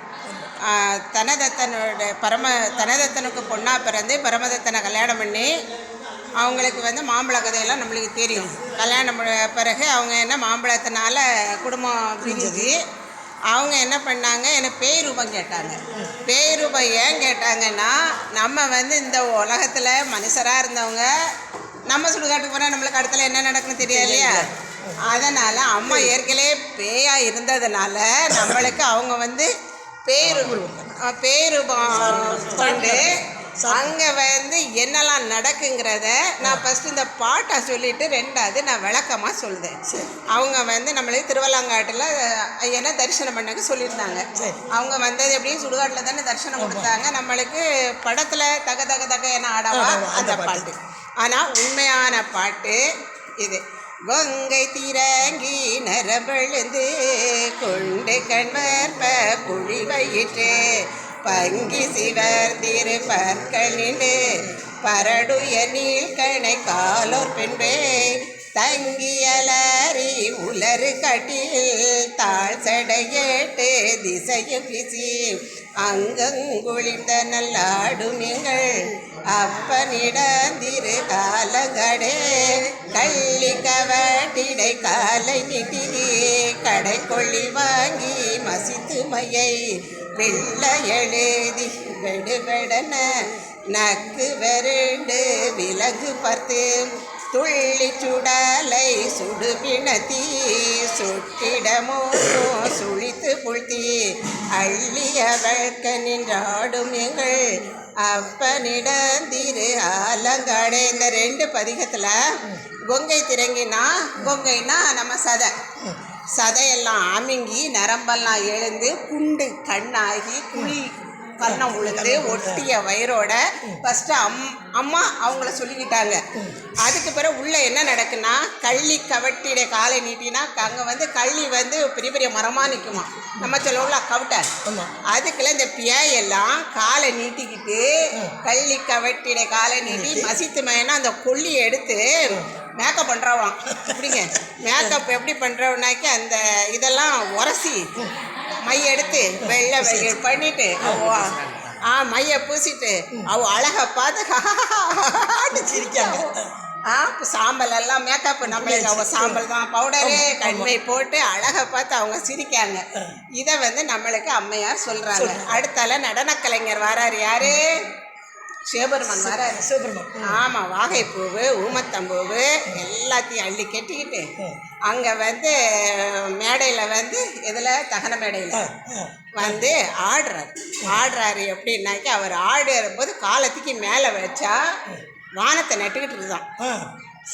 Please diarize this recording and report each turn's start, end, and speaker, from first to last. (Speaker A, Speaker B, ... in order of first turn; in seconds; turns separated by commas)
Speaker A: 0.6-5.5, Speaker A: 6.4-12.8, Speaker B: 12.2-12.7, Speaker A: 13.5-21.1, Speaker B: 15.9-16.2, Speaker A: 21.9-24.5, Speaker B: 23.8-25.0, Speaker A: 25.0-29.5, Speaker B: 25.8-26.2, Speaker B: 28.3-28.6, Speaker A: 30.1-39.7, Speaker B: 30.2-31.0, Speaker B: 31.9-34.0, Speaker B: 36.4-36.7, Speaker B: 39.9-40.2, Speaker A: 40.3-52.8, Speaker B: 44.3-44.7, Speaker B: 46.5-46.9, Speaker B: 49.7-50.7, Speaker A: 53.4-64.3, Speaker A: 64.8-93.2, Speaker A: 93.7-104.0, Speaker A: 104.5-112.2, Speaker A: 112.9-115.5, Speaker A: 116.4-126.2, Speaker B: 121.4-122.7, Speaker B: 126.3-126.7, Speaker A: 126.8-134.5, Speaker B: 134.6-134.9, Speaker A: 135.1-147.8, Speaker B: 139.9-140.3, Speaker B: 143.7-145.0, Speaker A: 148.7-156.3, Speaker B: 149.4-150.2, Speaker B: 150.8-151.2, Speaker B: 155.5-156.6, Speaker A: 156.9-162.8, Speaker B: 158.4-159.4, Speaker B: 160.0-160.7, Speaker A: 163.4-167.8, Speaker B: 165.1-165.6, Speaker A: 168.7-169.6, Speaker B: 169.1-170.4, Speaker A: 170.2-174.3, Speaker A: 174.9-178.7, Speaker B: 178.5-179.6, Speaker A: 179.3-184.6, Speaker A: 185.4-186.4, Speaker B: 186.6-186.9